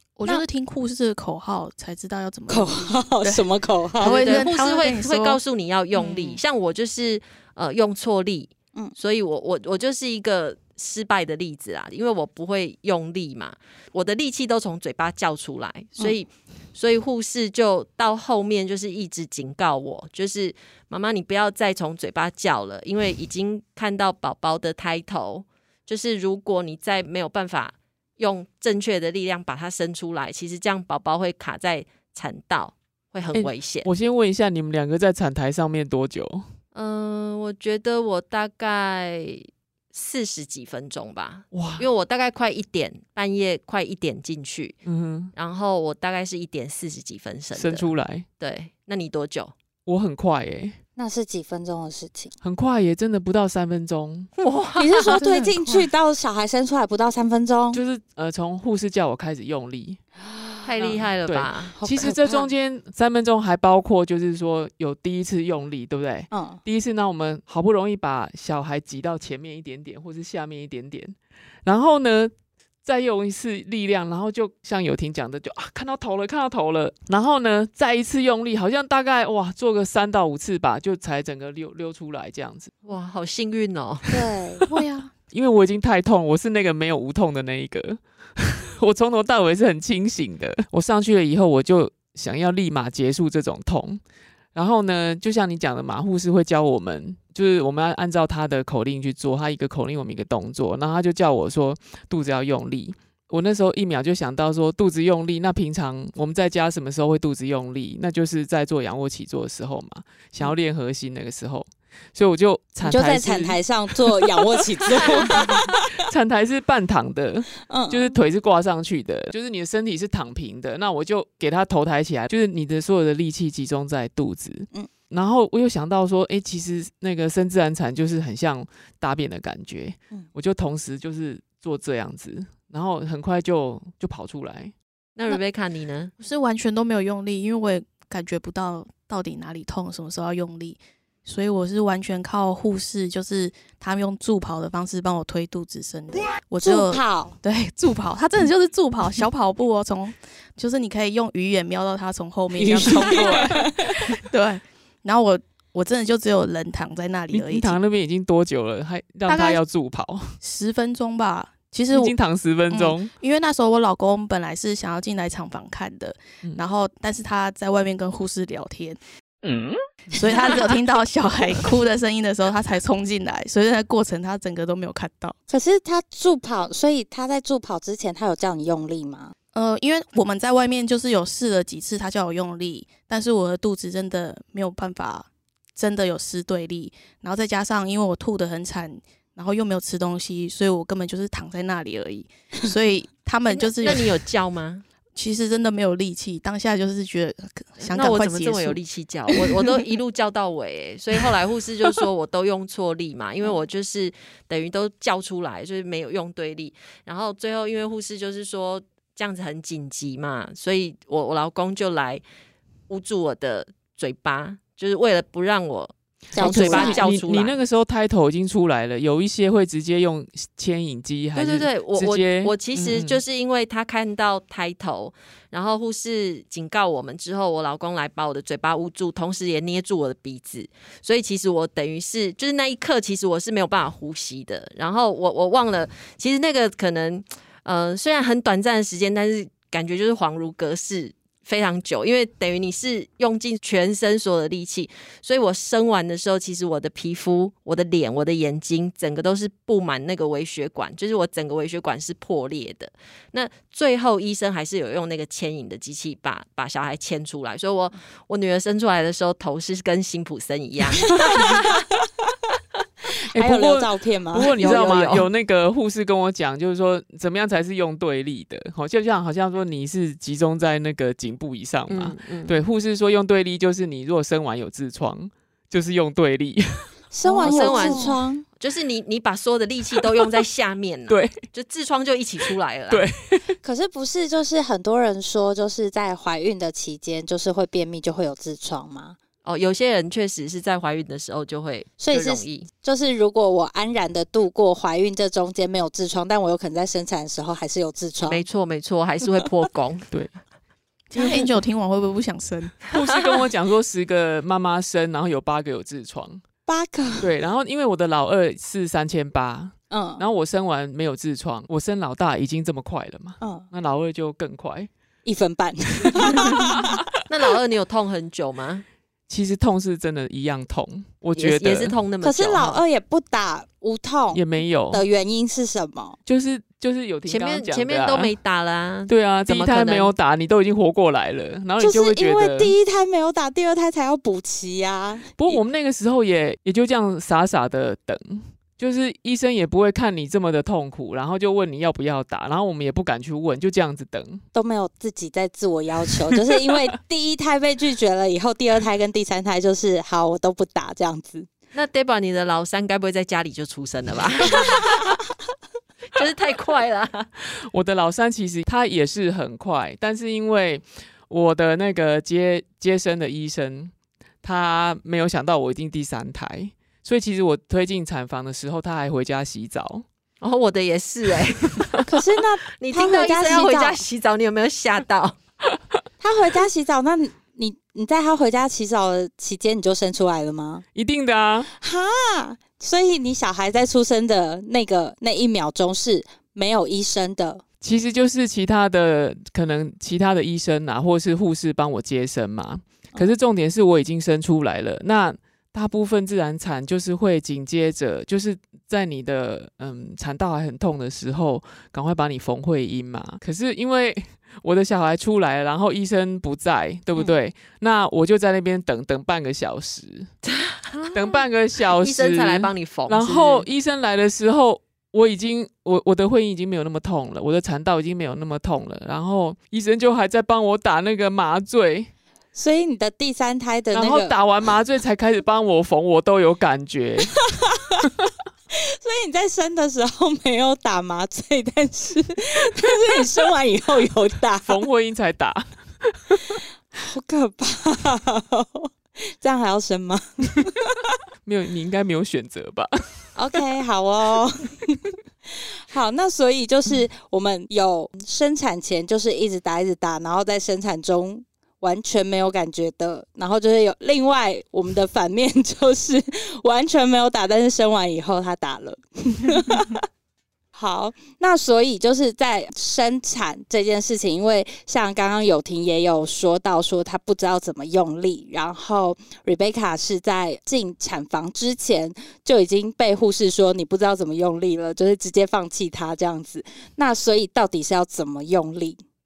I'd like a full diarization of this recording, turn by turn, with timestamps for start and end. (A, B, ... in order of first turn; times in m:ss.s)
0:00.2-0:03.4 A
0:02.5-0:04.4 B
0:04.0-0:05.4 A
0:04.0-0:33.9 C
0:06.0-0:06.4 B
0:33.3-0:36.4 D
0:36.7-0:44.8 C
0:41.5-0:41.9 D
0:44.8-0:45.3 D
0:45.3-0:49.5 C
0:47.5-0:48.2 D
0:49.8-0:50.8 D
0:51.0-0:52.3 B
0:52.4-0:54.3 D
0:54.4-0:55.8 C
0:54.8-0:57.8 B
0:55.1-0:55.4 D
0:57.7-1:00.0 D
1:00.2-1:00.7 B
1:00.6-1:01.8 C
1:00.8-1:12.3 D
1:01.8-1:02.5 B
1:06.3-1:06.6 B
1:12.8-1:22.7 D
1:22.8-1:24.2 C
1:24.1-1:24.6 B
1:24.7-1:25.1 A
1:25.3-1:34.0 D
1:34.5-1:53.6 D
1:52.8-1:55.9 B
1:55.0-2:14.7 D
1:57.7-1:58.1 B
2:15.2-2:16.1 C
2:16.2-2:37.8 A
2:26.6-2:27.4 B
2:32.6-2:33.6 D
2:37.3-2:40.4 D
2:39.3-2:39.6 A
2:40.4-2:42.1 A
2:41.9-2:43.1 D
2:42.7-2:49.0 A
2:50.1-2:55.3 A
2:55.5-2:59.3 B
2:59.5-3:14.2 A
3:13.5-3:14.8 C
3:15.2-3:19.5 A
3:17.8-3:32.2 C
3:32.9-3:37.6 C
3:36.3-3:37.0 B
3:36.3-3:43.2 D
3:41.3-4:21.7 C
4:23.3-4:24.8 B
4:23.3-4:38.1 D
4:24.6-4:25.3 C
4:31.9-4:32.6 C
4:37.1-4:38.4 B
4:37.2-4:43.0 C
4:41.1-4:41.4 D
4:42.9-4:43.6 D
4:43.6-4:49.2 B
4:49.4-4:52.7 C
4:52.0-4:58.4 B
4:58.2-5:00.1 C
5:01.1-5:02.8 A
5:02.9-5:06.4 D
5:06.6-5:07.3 B
5:07.2-5:14.9 D
5:09.9-5:10.2 B
5:13.4-5:13.7 B
5:15.2-5:17.0 B
5:16.2-5:16.5 D
5:17.3-5:18.8 C
5:19.3-5:22.0 D
5:21.4-5:22.8 C
5:22.2-5:26.2 B
5:24.3-5:25.0 D
5:26.2-5:28.3 D
5:27.2-5:30.1 C
5:29.1-5:32.7 D
5:31.8-5:35.6 B
5:35.4-5:44.4 D
5:44.5-5:51.5 B
5:51.7-5:55.2 C
5:56.1-5:57.2 C
5:57.7-6:10.0 D
6:10.4-6:12.0 C
6:12.1-6:14.0 B
6:12.8-6:15.4 C
6:16.2-6:20.8 B
6:20.9-6:21.7 D
6:21.7-6:27.6 B
6:27.8-6:50.3 D
6:50.5-6:51.4 C
6:51.1-7:02.1 D
6:52.0-6:53.6 C
7:02.5-7:04.3 B
7:03.9-7:07.4 D
7:07.3-7:07.8 B
7:08.0-7:08.3 D
7:08.7-7:14.8 B
7:14.6-7:16.4 D
7:17.0-7:21.0 B
7:21.4-7:22.9 D
7:23.4-7:25.0 B
7:25.6-7:40.0 B
7:40.7-7:59.0 B